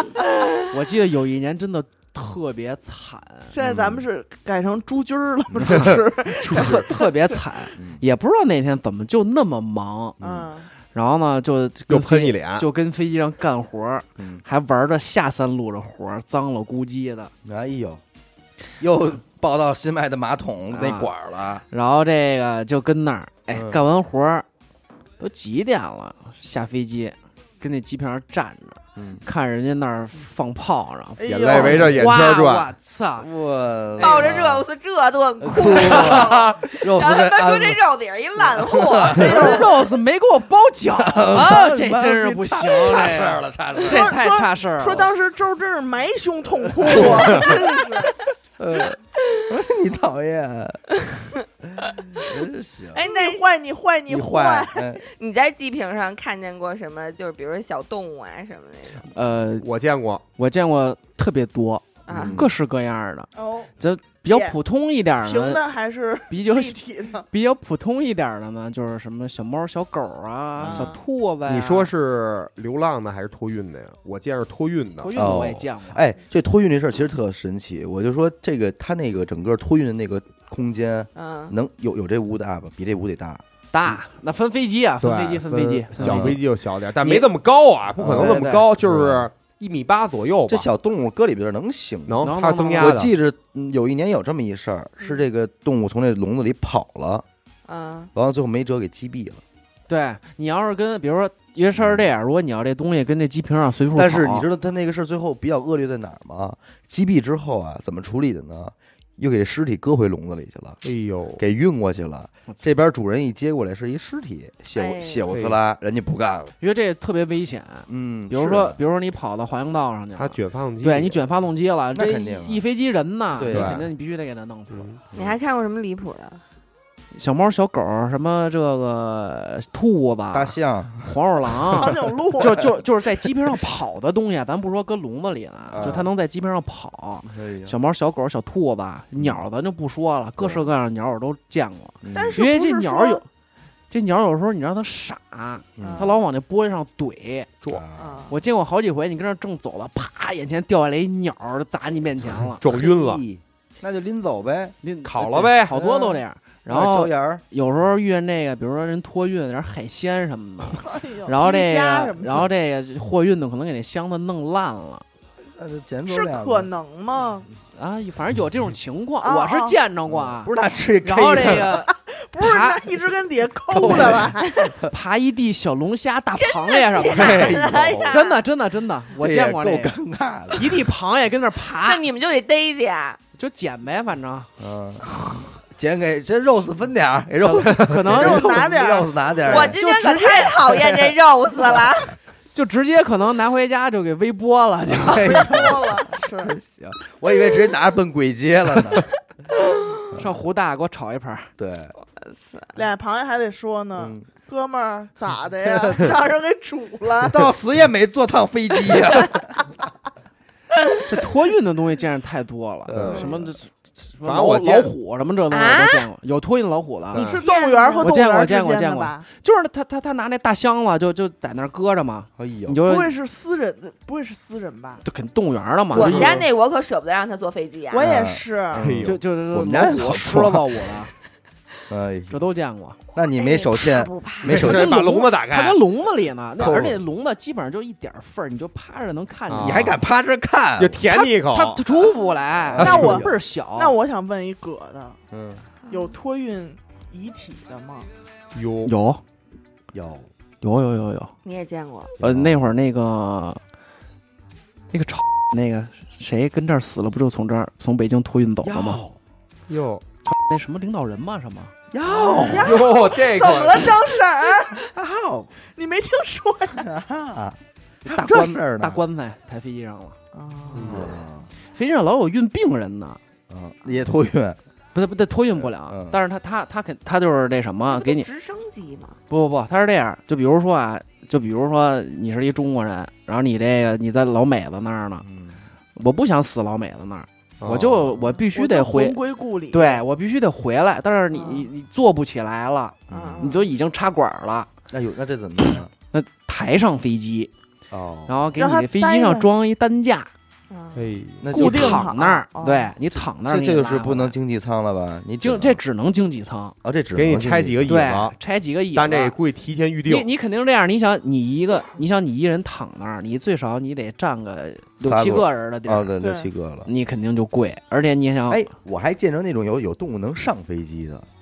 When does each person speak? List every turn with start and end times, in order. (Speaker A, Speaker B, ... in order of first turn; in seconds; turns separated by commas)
Speaker A: 0.7-3.5, Speaker B: 3.5-7.4, Speaker C: 3.6-4.0, Speaker A: 5.6-10.2, Speaker D: 6.5-6.9, Speaker C: 7.8-8.0, Speaker C: 10.2-10.5, Speaker B: 10.2-10.7, Speaker A: 10.9-17.3, Speaker D: 11.9-12.7, Speaker C: 14.2-14.4, Speaker C: 17.4-18.0, Speaker C: 18.8-21.6, Speaker A: 20.7-21.1, Speaker A: 21.7-24.5, Speaker C: 23.5-23.8, Speaker A: 25.2-33.3, Speaker C: 29.0-29.2, Speaker B: 31.2-31.9, Speaker D: 31.3-32.7, Speaker C: 31.6-32.0, Speaker C: 33.2-34.7, Speaker E: 34.0-39.5, Speaker A: 34.0-34.4, Speaker C: 35.4-37.8, Speaker B: 35.9-36.5, Speaker D: 36.1-36.5, Speaker C: 38.4-39.6, Speaker B: 39.1-39.7, Speaker A: 39.2-45.1, Speaker C: 41.0-44.1, Speaker B: 43.8-48.2, Speaker C: 46.8-47.8, Speaker C: 48.6-50.9, Speaker C: 51.8-53.0, Speaker E: 52.9-53.4, Speaker B: 53.0-54.8, Speaker C: 54.1-55.0, Speaker E: 55.0-59.1, Speaker A: 59.1-59.7, Speaker D: 59.6-60.2, Speaker A: 60.4-63.3, Speaker E: 62.1-62.4, Speaker C: 62.1-62.5, Speaker B: 63.4-63.7, Speaker A: 63.8-65.6, Speaker B: 64.3-64.6, Speaker B: 65.2-67.3, Speaker A: 66.3-66.8, Speaker A: 67.3-71.9, Speaker C: 70.6-70.9, Speaker B: 70.6-71.0, Speaker D: 71.5-75.2, Speaker A: 75.0-76.0, Speaker C: 75.2-83.4, Speaker E: 81.2-81.5, Speaker A: 83.7-86.4, Speaker D: 85.0-90.7, Speaker C: 86.0-86.4, Speaker C: 88.0-89.3, Speaker A: 88.2-88.6, Speaker C: 90.5-92.2, Speaker D: 92.1-93.1, Speaker A: 92.2-93.0, Speaker C: 92.8-97.2, Speaker E: 97.7-98.1, Speaker C: 98.2-99.4, Speaker A: 99.9-104.5, Speaker C: 101.8-102.1, Speaker C: 103.9-110.8, Speaker D: 110.8-111.4, Speaker C: 111.4-116.5, Speaker E: 114.7-115.3, Speaker A: 116.6-124.9, Speaker C: 117.9-118.8, Speaker D: 120.2-121.2, Speaker C: 121.9-122.7, Speaker C: 123.4-123.8, Speaker D: 123.5-123.9, Speaker D: 124.7-125.0, Speaker E: 125.1-126.4, Speaker A: 127.1-143.3, Speaker C: 130.3-131.2, Speaker C: 131.7-132.7, Speaker B: 131.7-132.7, Speaker C: 135.7-136.1, Speaker C: 137.3-137.8, Speaker C: 140.4-140.7, Speaker C: 142.0-142.4, Speaker B: 142.1-143.2, Speaker A: 143.9-147.5, Speaker C: 145.8-146.1, Speaker B: 145.8-146.1, Speaker C: 147.7-148.2, Speaker B: 148.0-148.3, Speaker A: 148.3-152.6, Speaker D: 152.6-153.2, Speaker C: 152.6-154.8, Speaker A: 154.8-165.1, Speaker D: 155.0-155.8, Speaker C: 155.8-157.4, Speaker B: 160.8-162.5, Speaker C: 165.6-166.7, Speaker B: 166.1-167.5, Speaker A: 167.8-170.5, Speaker B: 169.2-169.8, Speaker C: 170.1-171.7, Speaker A: 171.0-172.8, Speaker B: 171.9-174.7, Speaker C: 173.7-174.9, Speaker A: 173.8-174.2, Speaker A: 174.9-180.0, Speaker E: 176.3-178.4, Speaker C: 177.2-178.1, Speaker C: 179.2-180.9, Speaker A: 180.5-182.0, Speaker E: 181.8-183.2, Speaker A: 183.4-184.5, Speaker C: 184.6-189.8, Speaker A: 187.4-188.7, Speaker B: 188.1-190.7, Speaker E: 189.4-192.2, Speaker A: 189.8-190.4, Speaker A: 192.5-195.7, Speaker C: 194.9-199.1, Speaker B: 195.2-196.6, Speaker E: 199.7-199.9, Speaker A: 200.2-201.5, Speaker C: 201.6-201.9, Speaker E: 202.1-202.7, Speaker B: 202.8-207.5, Speaker C: 204.0-204.3, Speaker C: 207.2-209.7, Speaker A: 211.1-217.3, Speaker C: 212.9-213.5, Speaker D: 212.9-213.3, Speaker D: 214.2-214.9, Speaker E: 215.5-216.1, Speaker D: 217.1-217.4, Speaker B: 217.1-219.3, Speaker E: 217.4-218.1, Speaker A: 218.0-223.1, Speaker C: 222.4-222.8, Speaker B: 222.8-225.0, Speaker A: 225.0-226.5, Speaker E: 225.9-228.1, Speaker D: 226.0-226.4, Speaker B: 227.9-228.9, Speaker C: 228.0-230.9, Speaker D: 228.8-229.2, Speaker A: 229.0-231.1, Speaker C: 231.9-232.4, Speaker A: 232.3-233.0, Speaker C: 233.1-234.9, Speaker E: 233.2-234.7, Speaker D: 234.4-235.8, Speaker A: 234.5-240.0, Speaker C: 236.6-237.0, Speaker D: 239.5-240.0, Speaker C: 239.6-241.0, Speaker D: 240.8-241.8, Speaker A: 241.1-244.0, Speaker C: 242.7-243.4, Speaker B: 242.8-245.2, Speaker C: 245.3-245.6, Speaker E: 245.9-246.1, Speaker B: 245.9-248.1, Speaker D: 248.5-248.9, Speaker A: 248.8-249.2, Speaker C: 249.9-250.3, Speaker A: 250.6-251.3, Speaker E: 251.4-252.2, Speaker C: 252.2-252.6, Speaker A: 252.2-253.6, Speaker A: 254.9-259.0, Speaker C: 258.6-259.2, Speaker D: 259.7-260.0, Speaker A: 260.2-261.7, Speaker C: 261.9-262.9, Speaker B: 262.1-264.9, Speaker D: 262.5-264.0, Speaker C: 264.8-265.5, Speaker B: 265.7-266.9, Speaker C: 266.7-269.0, Speaker A: 268.1-270.2, Speaker B: 270.3-271.1, Speaker D: 270.7-271.1, Speaker C: 270.8-271.5, Speaker A: 271.7-273.2, Speaker C: 273.5-274.6, Speaker A: 274.9-278.3, Speaker C: 275.6-276.2, Speaker E: 277.9-279.2, Speaker A: 279.3-285.3, Speaker C: 285.2-285.6, Speaker A: 286.0-289.2, Speaker D: 287.6-288.1, Speaker B: 288.5-290.0, Speaker A: 289.7-294.7, Speaker B: 291.3-291.7, Speaker C: 293.1-293.5, Speaker E: 293.1-293.6, Speaker C: 294.9-295.9, Speaker A: 295.6-297.5, Speaker C: 297.9-298.4, Speaker A: 298.3-300.3, Speaker B: 298.6-299.5, Speaker E: 300.7-301.1, Speaker D: 300.9-301.5, Speaker C: 301.4-302.1, Speaker B: 301.5-302.9, Speaker A: 301.5-304.4, Speaker C: 303.4-305.8, Speaker A: 305.4-306.8, Speaker C: 306.8-308.0, Speaker D: 307.2-308.4, Speaker A: 307.9-309.4, Speaker D: 308.9-310.3, Speaker A: 310.1-316.1, Speaker C: 315.0-316.9, Speaker B: 316.2-316.5, Speaker A: 316.9-318.7, Speaker C: 318.5-321.3